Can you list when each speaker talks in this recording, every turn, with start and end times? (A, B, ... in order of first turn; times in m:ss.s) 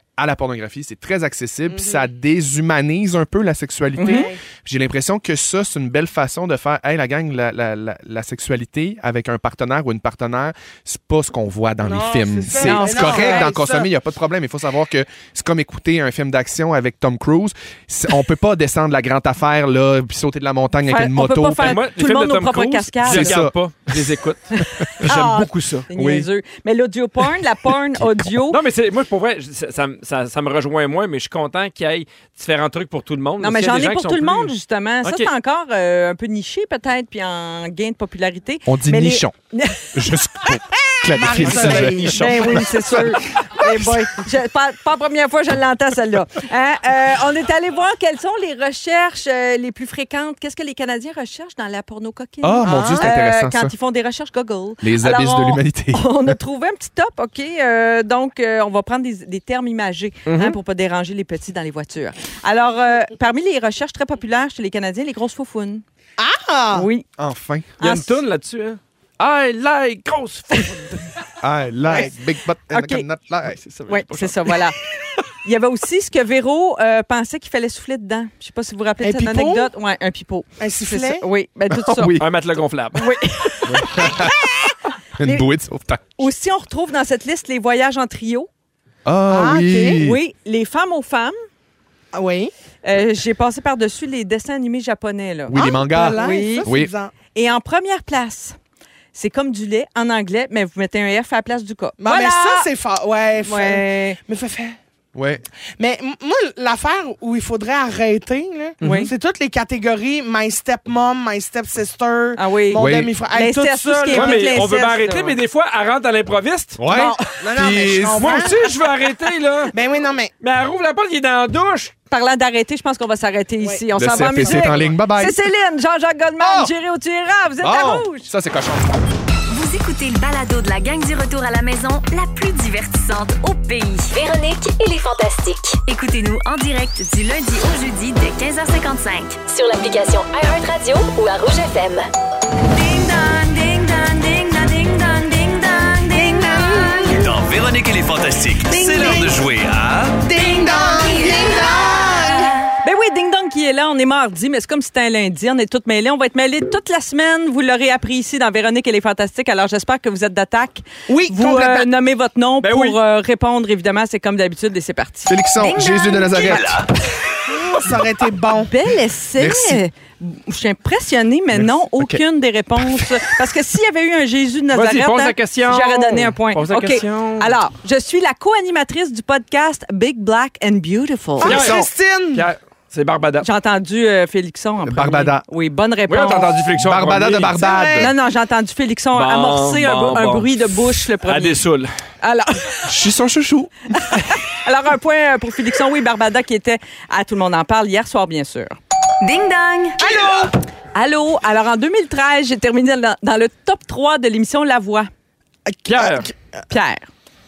0:00.2-0:21.8 A
0:01.7-0:02.1 B
0:04.0-0:04.3 C
0:04.0-0:04.4 B
0:11.8-0:13.9 B
0:12.6-0:13.5 C
0:20.8-0:23.4 C
0:21.6-0:25.9 D
0:23.0-0:24.1 A
0:24.6-0:28.6 C
0:24.8-0:25.1 A
0:25.9-0:26.3 A
0:27.7-0:28.4 A
0:28.5-0:34.5 D
0:33.4-0:40.2 C
0:35.0-0:35.3 D
0:38.7-0:39.4 A
0:39.9-0:43.9 A
0:41.1-0:43.0 B
0:41.3-1:05.8 C
0:52.4-0:53.7 A
0:52.6-0:53.1 B
0:54.8-0:56.4 A
1:06.2-1:06.9 B
1:06.7-1:07.0 C
1:07.2-1:07.7 A
1:07.8-1:11.1 D
1:07.8-1:08.1 C
1:11.4-1:13.6 A
1:12.7-1:13.0 C
1:13.4-1:14.6 D
1:13.9-1:14.8 C
1:15.4-1:22.2 C
1:19.0-1:19.7 B
1:20.6-1:21.2 B
1:21.7-1:22.3 A
1:22.2-1:23.2 D
1:23.0-1:25.5 C
1:23.7-1:24.5 A
1:25.2-1:26.1 A
1:26.2-1:28.5 C
1:29.0-1:30.2 A
1:29.3-1:30.0 B
1:30.0-1:31.3 C
1:32.1-1:32.5 B
1:32.8-1:36.7 C
1:35.5-1:36.9 A
1:35.5-1:37.1 B
1:37.3-1:38.6 C
1:39.1-1:42.7 C
1:42.0-1:44.8 B
1:43.4-1:44.2 C
1:45.1-1:45.4 A
1:45.8-1:54.5 B
1:48.8-1:49.1 C
1:52.4-1:55.4 C
1:52.7-1:53.1 A
1:54.1-1:56.8 D
1:56.8-1:58.4 A
1:56.9-1:57.2 C
1:57.0-1:58.7 B
1:58.2-1:59.7 D
1:59.7-2:00.3 B
2:00.4-2:01.9 D
2:02.1-2:08.3 C
2:03.6-2:04.9 B
2:04.0-2:05.4 A
2:06.4-2:06.7 A
2:07.6-2:08.9 A
2:09.5-2:14.1 E
2:14.1-2:15.8 F
2:15.9-2:19.4 E
2:19.4-2:22.0 F
2:22.7-2:27.2 E
2:26.4-2:27.2 B
2:27.1-2:30.3 G
2:28.7-2:29.4 B
2:30.2-2:32.5 B
2:30.4-2:31.8 E
2:32.8-2:46.5 C
2:41.1-2:41.9 B
2:42.6-2:43.0 D
2:45.3-2:46.8 A
2:45.6-2:46.4 E
2:46.4-2:46.9 G
2:47.5-2:48.7 B
2:48.6-3:01.7 C
2:49.4-2:49.8 A
2:51.5-2:52.2 A
2:52.8-2:53.2 A
2:54.7-2:57.6 D
3:01.4-3:02.5 B
3:01.4-3:01.8 D
3:01.5-3:01.9 A
3:02.3-3:03.5 D
3:03.4-3:06.5 C
3:04.8-3:05.4 A
3:06.1-3:07.6 D
3:06.8-3:08.1 A
3:07.5-3:08.1 B
3:08.0-3:11.6 C
3:09.1-3:11.9 D
3:12.2-3:12.9 C
3:12.8-3:13.7 A
3:14.0-3:18.8 C
3:19.2-3:20.2 E
3:20.0-3:20.5 B
3:21.0-3:25.1 C
3:25.7-3:26.4 B
3:25.9-3:26.3 D
3:26.7-3:27.1 C